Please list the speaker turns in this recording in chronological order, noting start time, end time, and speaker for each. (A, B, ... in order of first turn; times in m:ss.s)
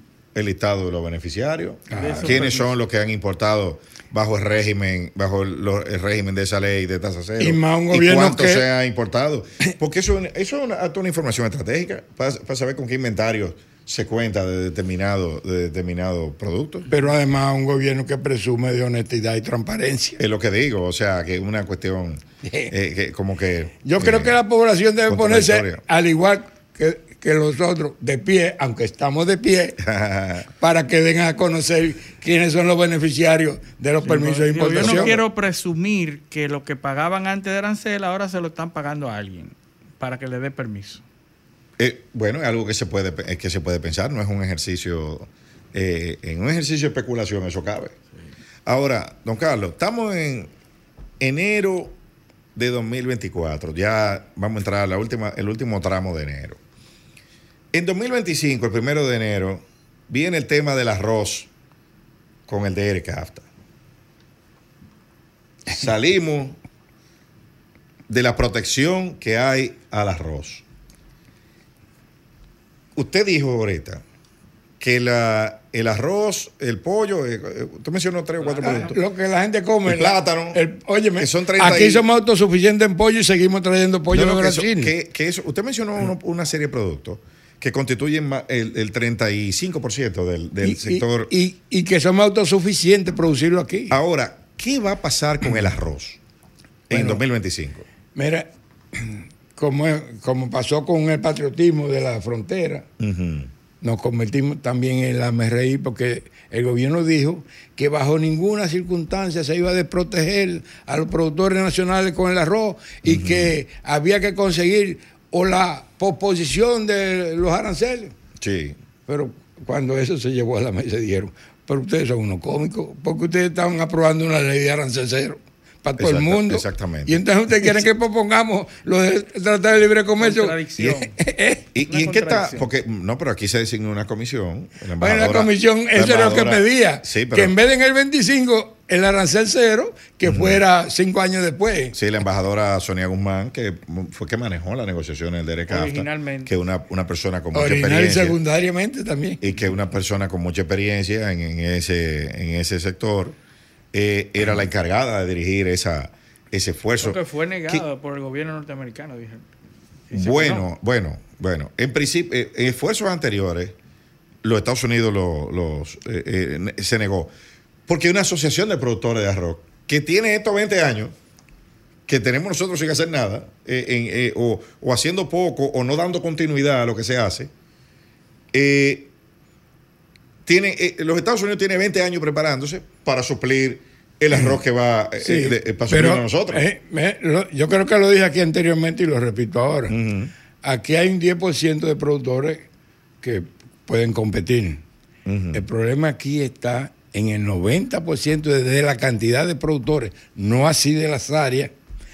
0:00.3-0:16.9 A
0:01.9-0:02.4 B
0:01.9-0:02.8 C
0:07.4-0:08.7 B
0:16.9-0:20.2 B
0:20.2-0:24.4 A
0:22.4-0:22.7 B
0:23.8-0:29.8 B
0:25.1-0:25.8 A
0:29.8-0:30.5 A
0:30.5-0:35.2 B
0:34.0-0:41.0 C
0:34.7-0:35.2 A
0:41.8-0:47.9 A
0:48.7-0:50.5 A
0:51.2-0:52.0 A
0:52.6-0:56.6 A
0:57.7-1:01.5 A
1:02.5-1:03.4 A
1:05.7-1:06.6 A
1:08.1-1:10.6 A
1:13.0-1:14.0 A
1:14.8-1:19.0 A
1:18.4-1:19.0 C
1:18.6-1:24.9 B
1:19.9-1:20.6 A
1:21.2-1:22.1 A
1:24.1-1:31.3 A
1:30.6-1:34.0 B
1:33.9-1:36.2 A
1:36.9-1:37.8 A
1:36.9-1:37.2 B
1:38.1-1:42.9 B
1:43.0-1:43.5 A
1:43.8-1:58.2 B
1:53.0-1:53.5 A
1:58.4-1:58.8 A
1:59.1-2:11.7 B
2:06.0-2:07.7 A
2:10.2-2:11.1 C
2:11.7-2:17.5 A
2:11.9-2:12.7 C
2:15.0-2:22.0 B
2:20.2-2:20.6 A
2:21.9-2:28.4 A
2:25.7-2:26.5 C
2:27.5-2:29.4 B
2:29.4-2:33.4 A
2:33.9-2:37.8 A
2:37.0-2:39.4 C
2:40.1-2:40.7 C
2:40.1-2:43.8 A
2:44.4-2:47.3 A
2:47.9-2:51.2 A
2:52.1-2:57.5 A
2:58.5-2:59.1 A
3:00.5-3:06.6 A
3:05.2-3:10.0 B
3:09.9-3:10.3 A
3:10.6-3:12.7 B
3:13.2-3:14.8 B
3:15.3-3:15.6 A
3:15.5-3:21.7 B